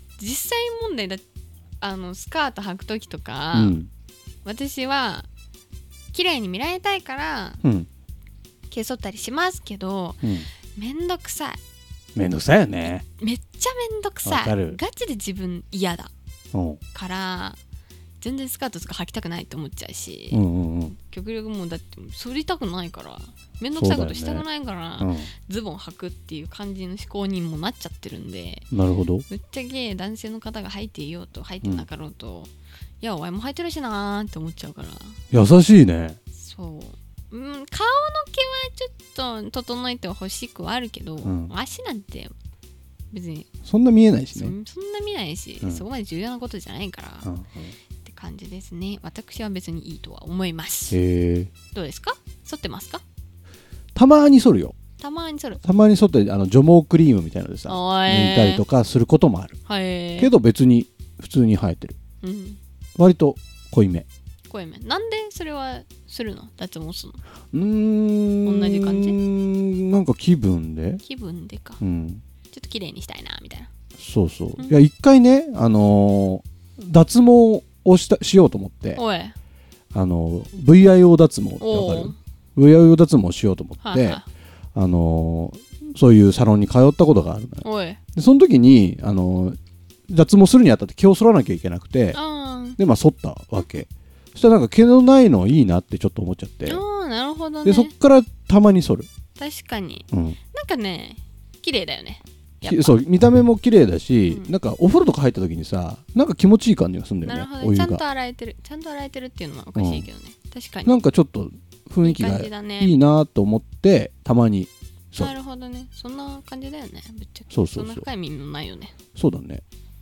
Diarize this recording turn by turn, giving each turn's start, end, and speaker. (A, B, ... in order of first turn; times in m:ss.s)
0:00.2-0:01.2 A
0:01.8-0:03.8 A
0:03.5-0:03.9 B
0:04.4-0:05.3 A
0:06.1-0:07.6 A
0:07.6-0:07.9 B
0:08.7-0:11.6 A
0:10.2-0:10.5 B
0:12.2-0:13.0 B
0:12.8-0:16.1 A
0:14.2-0:14.8 B
0:16.5-0:16.8 B
0:16.9-0:17.6 A
0:18.2-0:20.4 A
0:20.3-0:21.0 B
0:21.0-0:28.6 A
0:23.7-0:24.4 B
0:25.0-0:25.3 B
0:28.7-0:29.2 B
0:29.3-0:35.2 A
0:35.3-0:36.2 B
0:36.3-0:42.3 A
0:41.2-0:41.5 B
0:43.1-0:43.5 A
0:43.6-0:44.5 B
0:44.3-0:47.3 A
0:47.2-0:47.7 B
0:48.0-0:51.0 A
0:50.9-0:51.5 B
0:51.7-0:53.0 A
0:53.9-0:54.7 B
0:55.0-0:55.6 A
0:55.6-0:59.6 B
0:57.7-0:58.6 A
0:59.6-1:00.3 A
1:00.2-1:02.0 B
1:02.2-1:02.6 A
1:03.0-1:04.0 B
1:04.5-1:07.2 A
1:07.5-1:11.0 B
1:08.4-1:09.2 A
1:11.0-1:11.8 A
1:11.8-1:12.2 B
1:12.5-1:13.7 A
1:14.0-1:19.0 B
1:19.0-1:19.3 A
1:19.9-1:24.2 B
1:21.6-1:22.2 A
1:23.8-1:24.2 A
1:24.7-1:29.6 B
1:27.6-1:28.0 A
1:30.1-1:32.2 B
1:32.1-1:32.8 A
1:32.8-1:36.8 B
1:33.6-1:33.8 A
1:36.6-1:37.9 A
1:37.6-1:39.1 B
1:39.4-1:43.0 A
1:40.1-1:40.4 B
1:42.6-1:48.0 B
1:44.3-1:44.5 A
1:47.2-1:51.0 A
1:49.7-1:50.0 B
1:50.8-1:55.3 B
1:52.0-1:53.0 A
1:55.1-1:58.9 A
1:57.5-1:58.0 B
1:59.2-1:59.6 B